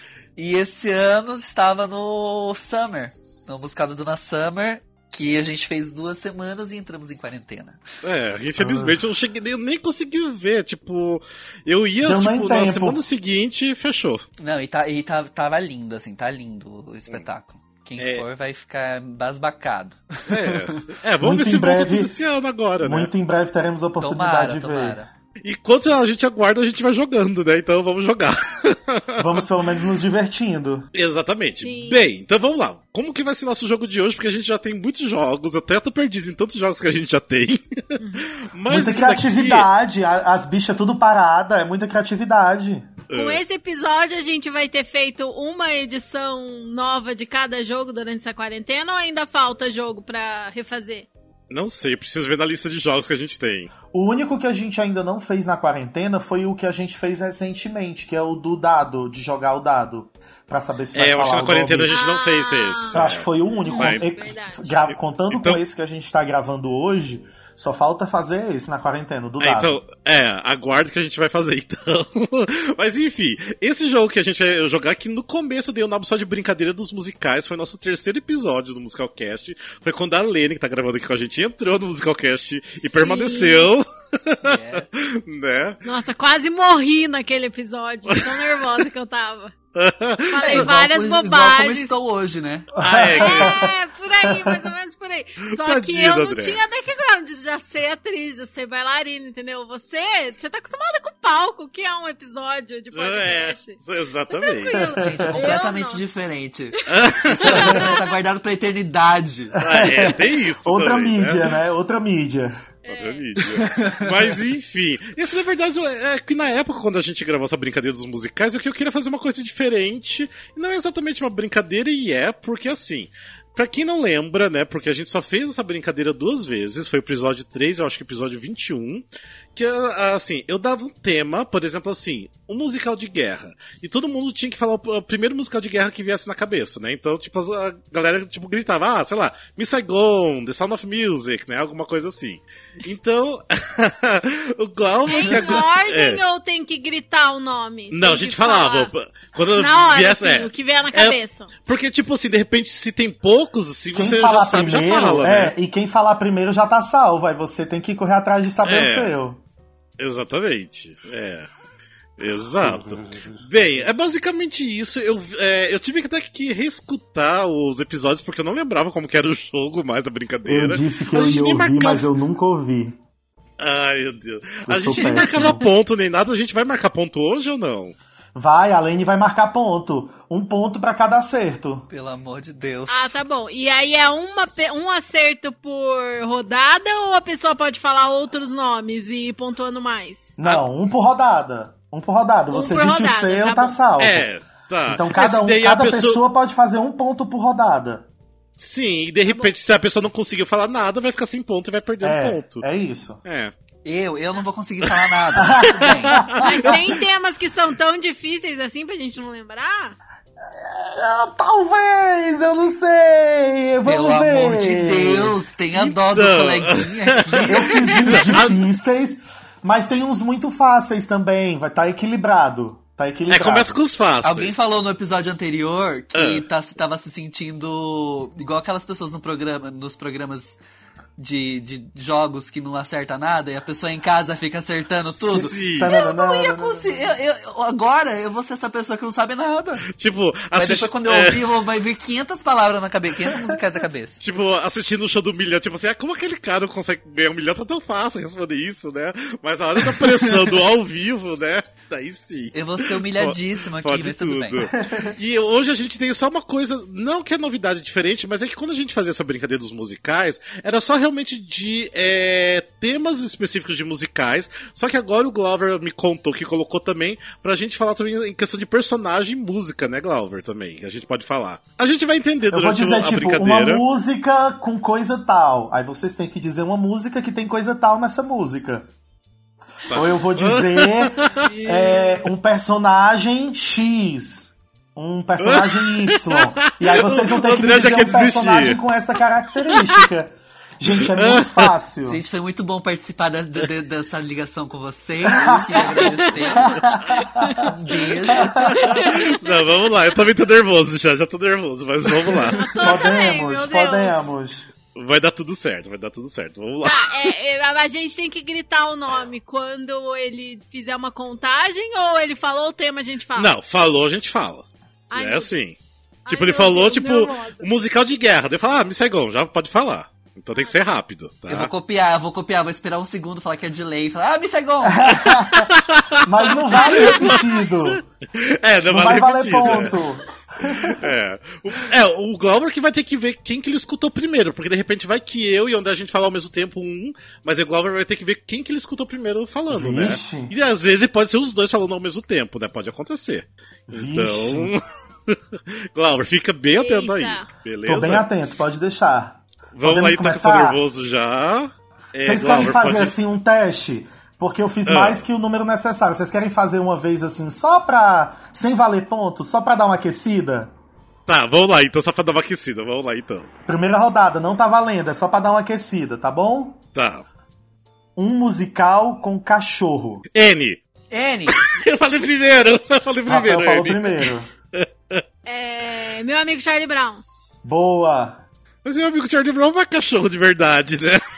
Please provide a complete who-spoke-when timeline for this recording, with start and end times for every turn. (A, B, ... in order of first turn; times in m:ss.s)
0:00.4-0:07.8 A
0:08.0-0:14.2 B
0:08.6-0:09.0 C
0:12.0-0:13.0 C
0:14.4-0:20.7 A
0:18.0-0:18.2 B
0:20.3-0:23.1 B
0:21.2-0:22.1 C
0:22.8-0:25.0 C
0:24.0-0:25.1 A
0:25.4-0:29.4 B
0:29.2-0:30.9 C
0:30.9-0:39.7 B
0:31.6-0:32.1 D
0:38.0-0:38.3 D
0:38.7-0:42.9 C
0:43.1-0:43.4 B
0:43.1-0:51.1 D
0:51.5-0:53.7 B
0:53.9-1:01.9 C
1:00.9-1:04.0 B
1:01.9-1:03.0 D
1:02.9-1:09.8 C
1:03.6-1:04.7 D
1:05.3-1:05.6 B
1:09.4-1:25.8 B
1:22.8-1:23.7 D
1:24.4-1:25.0 A
1:25.8-1:29.5 D
1:29.7-1:30.7 B
1:30.3-1:31.9 D
1:30.4-1:32.7 A
1:32.7-1:33.7 C
1:32.8-1:33.6 B
1:33.2-1:46.0 D
1:34.3-1:34.6 C
1:35.5-1:36.6 B
1:42.9-1:44.9 B
1:44.8-1:45.4 C
1:44.9-1:49.6 A
1:46.9-1:47.8 B
1:47.3-1:48.1 D
1:49.5-1:52.6 C
1:49.6-1:51.5 B
1:52.8-1:53.3 D
1:52.9-2:26.2 B
1:53.4-1:54.3 A
2:25.0-2:28.9 D
2:27.9-2:35.5 B
2:29.6-2:31.5 D
2:33.9-2:39.4 C
2:38.6-2:39.2 B
2:40.0-2:41.5 B
2:42.2-2:52.1 B
2:42.6-2:43.3 C
2:50.4-2:53.0 C
2:53.6-2:57.9 B
2:54.7-2:55.6 C
2:54.9-2:55.6 A
2:58.3-3:01.9 C
3:01.9-3:03.2 A
3:02.9-3:10.4 D
3:10.4-3:14.3 C
3:12.5-3:13.8 D
3:14.0-3:16.2 B
3:14.8-3:18.1 C
3:18.6-3:22.6 B
3:19.2-3:19.5 D
3:22.0-3:23.2 C
3:23.2-3:23.5 B
3:23.8-3:26.2 A
3:25.4-3:26.9 C
3:25.8-3:26.8 B
3:26.4-3:30.0 D
3:30.4-3:35.4 C
3:33.8-3:38.3 A
3:35.7-3:38.6 B
3:37.4-3:43.8 C
3:43.3-3:44.5 B
3:44.2-3:50.6 A
3:46.1-3:46.4 B
3:51.2-3:59.9 A
3:55.3-3:55.9 B
3:55.3-3:57.1 C
3:59.9-4:01.4 B
4:00.5-4:04.2 A
4:04.2-4:33.8 B
4:09.9-4:10.5 A
4:12.5-4:14.7 A
4:14.7-4:15.2 C
4:32.5-4:38.9 C
4:39.9-4:41.5 B
4:39.9-4:52.2 C
4:41.4-4:42.2 D
4:45.4-4:48.8 B
4:50.9-4:51.7 B
4:52.0-4:56.8 A
4:55.2-4:57.7 C
4:55.9-4:56.7 D
4:57.4-4:57.6 D
4:57.5-4:58.6 A
4:58.4-4:59.0 C
4:58.6-5:02.8 B
4:58.8-4:59.6 D
5:02.3-5:04.3 D
5:02.8-5:04.7 C
5:04.9-5:07.3 B
5:06.8-5:13.5 D
5:13.4-5:15.7 B
5:15.1-5:17.7 D
5:16.3-5:21.7 B
5:21.5-5:25.2 A
5:24.8-5:25.7 C
5:25.3-5:30.0 B
5:26.2-5:28.0 C
5:26.8-5:27.4 D
5:28.9-5:31.1 C
5:30.6-5:48.2 B
5:39.7-5:40.5 C
5:43.9-5:44.7 C
5:46.7-5:47.5 D
5:47.8-5:50.8 C
5:49.8-5:53.1 B
5:52.2-6:00.7 C
5:54.9-5:55.2 B
6:01.3-6:03.5 B
6:03.7-6:06.8 C
6:06.9-6:07.2 B
6:08.2-6:10.2 C
6:10.3-6:10.8 B
6:11.1-6:11.6 A
6:11.6-6:15.2 B
6:13.3-6:14.5 C
6:15.4-6:17.2 D
6:17.6-6:18.4 C
6:18.8-6:21.2 B